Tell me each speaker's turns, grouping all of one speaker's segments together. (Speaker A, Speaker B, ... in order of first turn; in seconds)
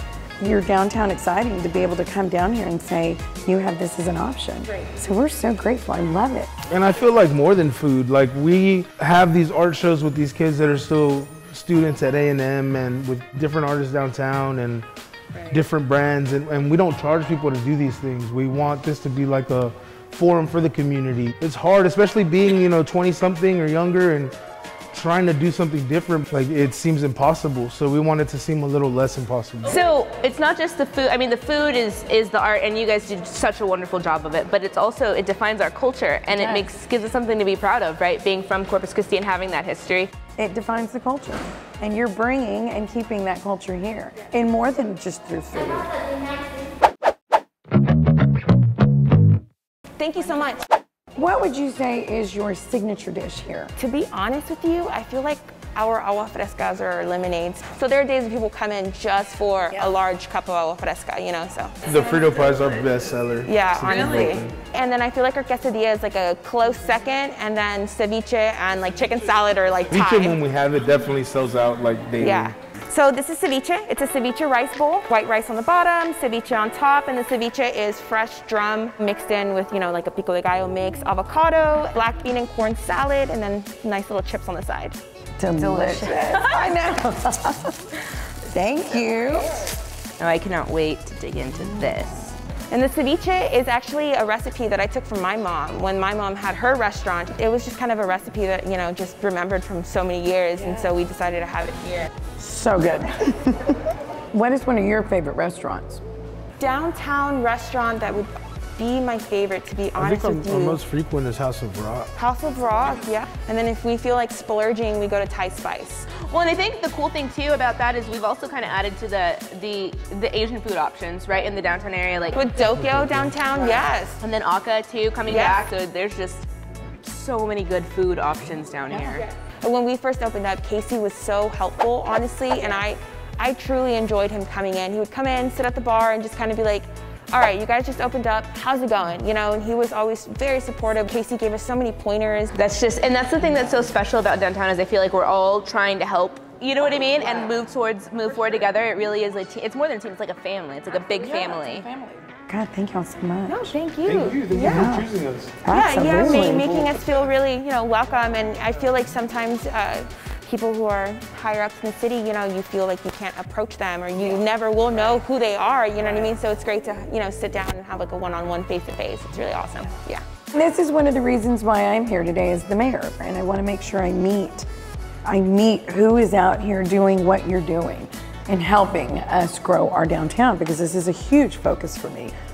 Speaker A: 0.4-6.5, 36.3-36.8, 40.4-46.0, 51.2-53.7, 85.4-89.7, 102.4-103.8, 104.3-106.0, 151.2-153.7, 154.6-155.1, 155.6-156.8, 170.5-174.7, 175.2-182.3
Speaker B: 6.7-14.9, 15.4-24.3, 24.9-29.8, 61.9-64.5, 69.9-72.5, 110.0-112.1, 122.7-123.3, 154.0-155.7, 156.2-156.9
Speaker C: 29.6-40.1, 63.9-64.3, 85.6-86.7, 90.2-92.4, 116.2-122.4, 124.2-126.5, 127.0-129.3, 142.6-151.9
Speaker D: 50.0-50.6, 53.8-62.0, 63.5-70.4, 72.2-85.0, 92.7-102.1, 106.6-110.8, 112.2-116.1, 122.3-124.2, 125.3-125.7, 129.6-142.6, 153.5-154.9, 155.7-170.2